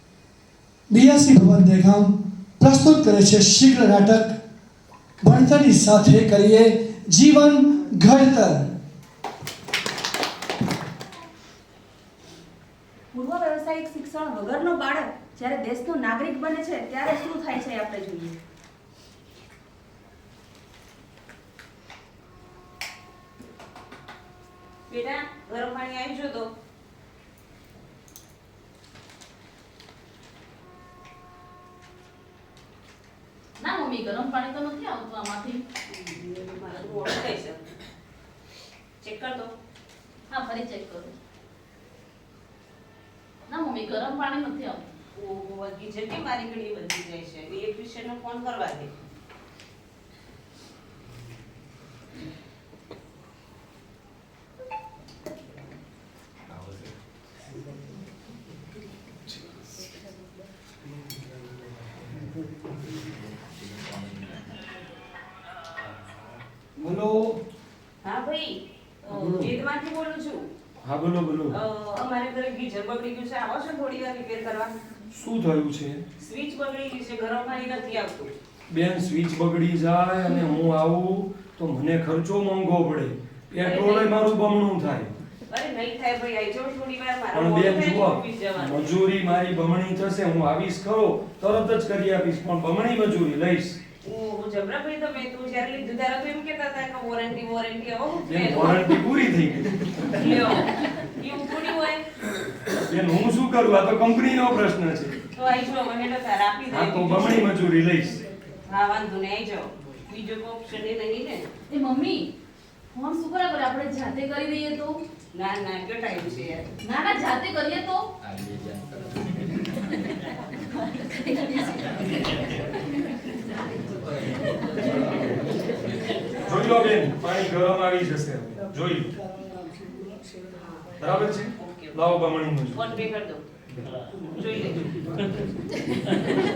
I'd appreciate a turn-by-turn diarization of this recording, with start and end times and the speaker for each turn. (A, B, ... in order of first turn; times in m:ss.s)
0:00.9-0:04.4 A
0:05.2-0:08.7 A
0:13.1-0:18.4 B
0:24.9-0:26.5 C
0:33.6-0:35.6 D
0:35.9-0:37.7 C
0:39.0-0:39.5 C
0:40.3-0:41.1 D
0:43.5-0:44.9 D
0:45.2-0:48.9 C
1:06.8-1:07.4 E
1:08.0-1:10.4 C
1:09.1-1:09.5 E
1:10.8-1:11.6 E
1:11.5-1:14.7 C
1:15.1-1:16.0 E
1:16.2-1:18.3 C
1:18.7-1:25.1 E
1:23.6-1:24.2 C
1:25.5-1:28.9 C
1:27.3-1:33.8 E
1:34.0-1:38.8 C
1:38.3-1:39.8 E
1:40.2-1:42.0 C
1:42.9-1:45.2 E
1:45.4-1:47.5 C
1:46.7-1:48.2 E
1:48.7-1:51.5 C
1:51.7-1:52.3 D
1:52.9-1:55.0 D
1:55.3-1:56.7 C
1:56.8-1:58.1 D
2:06.5-2:09.2 E
2:11.0-2:12.8 E
2:11.6-2:12.0 C
2:12.7-2:13.4 C
2:14.3-2:14.9 C